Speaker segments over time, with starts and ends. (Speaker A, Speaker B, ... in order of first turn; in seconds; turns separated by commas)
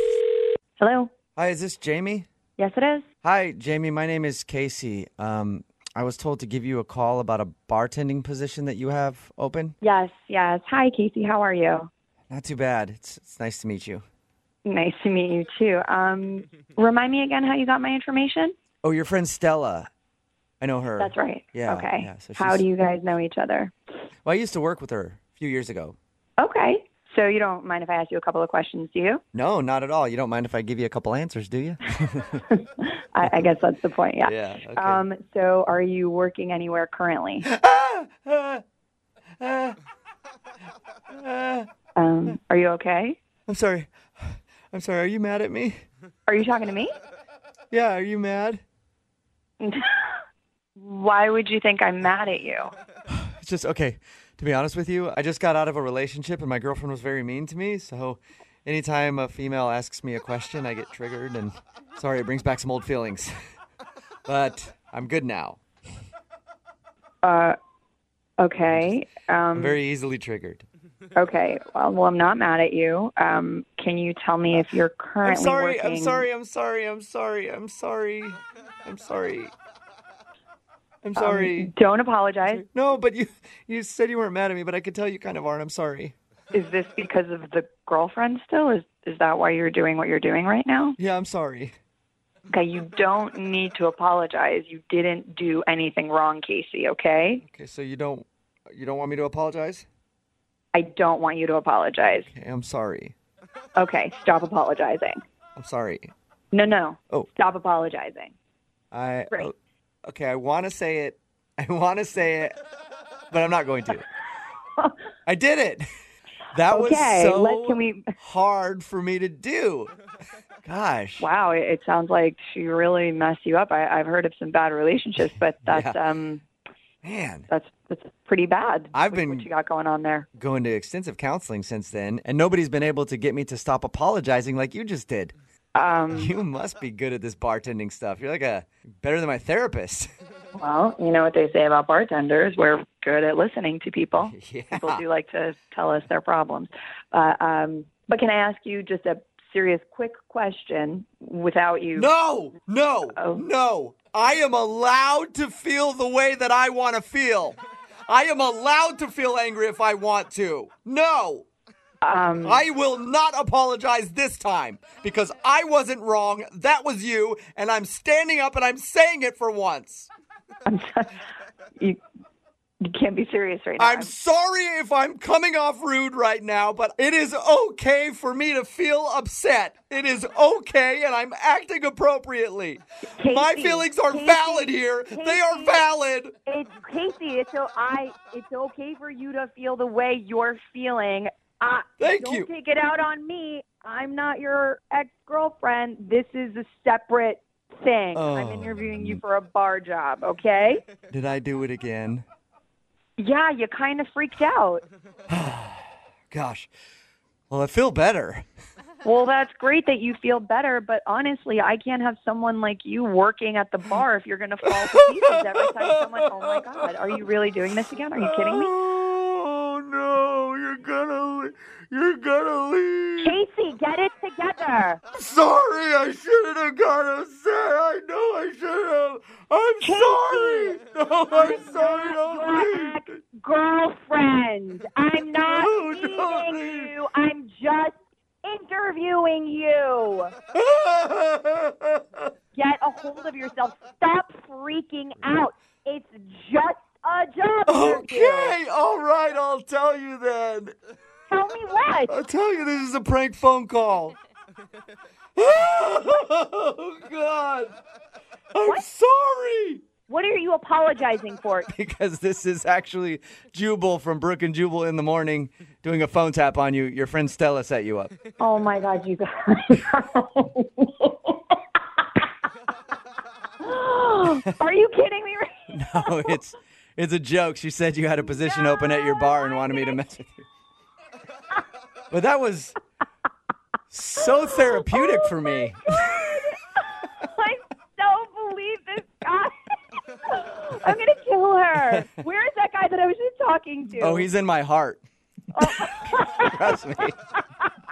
Speaker A: 0.8-1.1, Speaker B: 1.4-2.3, Speaker A: 2.6-3.0, Speaker B: 3.2-9.8, Speaker A: 9.8-11.9, Speaker B: 12.3-14.0, Speaker A: 14.6-18.5, Speaker B: 18.8-19.9, Speaker B: 20.6-22.6, Speaker A: 21.0-23.7, Speaker B: 24.2-26.0, Speaker A: 26.4-29.2, Speaker B: 29.3-32.4, Speaker A: 32.5-37.5, Speaker B: 34.2-35.0, Speaker B: 37.4-38.6, Speaker B: 39.4-39.8, Speaker B: 41.1-41.7, Speaker A: 42.0-43.2, Speaker B: 43.5-45.8, Speaker A: 46.3-46.9, Speaker B: 47.7-48.6, Speaker A: 49.6-50.2, Speaker A: 50.8-52.7, Speaker B: 53.1-63.3, Speaker B: 64.3-65.6, Speaker A: 67.2-67.5, Speaker A: 68.4-69.8, Speaker B: 68.7-68.9, Speaker B: 69.5-70.6, Speaker A: 71.1-76.2, Speaker B: 75.2-79.5, Speaker B: 81.0-81.7, Speaker A: 81.2-82.6, Speaker B: 82.5-86.1, Speaker A: 86.5-91.0, Speaker B: 91.0-91.7, Speaker A: 92.5-97.4, Speaker B: 97.5-99.9, Speaker A: 100.7-102.3, Speaker B: 102.3-103.1, Speaker A: 103.7-105.2, Speaker B: 105.5-106.1, Speaker A: 106.5-108.3, Speaker B: 108.9-109.5, Speaker B: 110.0-112.6, Speaker B: 113.3-114.0, Speaker B: 115.2-115.9, Speaker B: 116.5-119.9, Speaker A: 116.7-118.1, Speaker B: 120.6-121.3, Speaker A: 121.2-126.4, Speaker B: 125.7-126.0, Speaker B: 127.0-127.5, Speaker A: 127.5-130.3, Speaker B: 128.9-129.5, Speaker B: 130.4-135.3, Speaker A: 135.7-136.3, Speaker B: 136.1-140.1, Speaker A: 140.6-152.1, Speaker B: 144.2-145.0, Speaker B: 151.9-161.4, Speaker A: 153.1-153.4, Speaker A: 162.0-162.6, Speaker B: 162.4-170.1, Speaker A: 170.7-171.1, Speaker A: 172.8-174.1, Speaker B: 173.8-186.3, Speaker A: 183.1-185.8, Speaker A: 186.4-200.8, Speaker B: 192.0-192.5, Speaker B: 198.1-199.2, Speaker B: 201.1-202.2, Speaker A: 203.2-204.8, Speaker B: 205.3-206.7, Speaker B: 207.5-208.4, Speaker A: 209.0-218.7, Speaker B: 214.7-216.9, Speaker B: 218.2-223.4, Speaker A: 223.2-225.0, Speaker B: 225.1-233.2, Speaker A: 229.8-230.7, Speaker A: 231.3-240.3, Speaker B: 235.4-236.9, Speaker B: 240.5-242.3, Speaker A: 242.6-248.6, Speaker B: 247.7-250.7, Speaker A: 251.3-252.1, Speaker B: 252.1-254.2, Speaker B: 255.4-257.7, Speaker B: 258.5-259.8, Speaker A: 260.1-261.7, Speaker B: 261.7-268.1, Speaker A: 268.4-271.3, Speaker A: 273.6-276.4, Speaker B: 275.7-280.4, Speaker A: 278.3-279.9, Speaker B: 282.1-282.8, Speaker B: 283.9-286.4, Speaker A: 284.4-289.7, Speaker A: 290.2-294.3, Speaker B: 294.0-295.0, Speaker A: 295.5-296.7, Speaker B: 296.3-297.2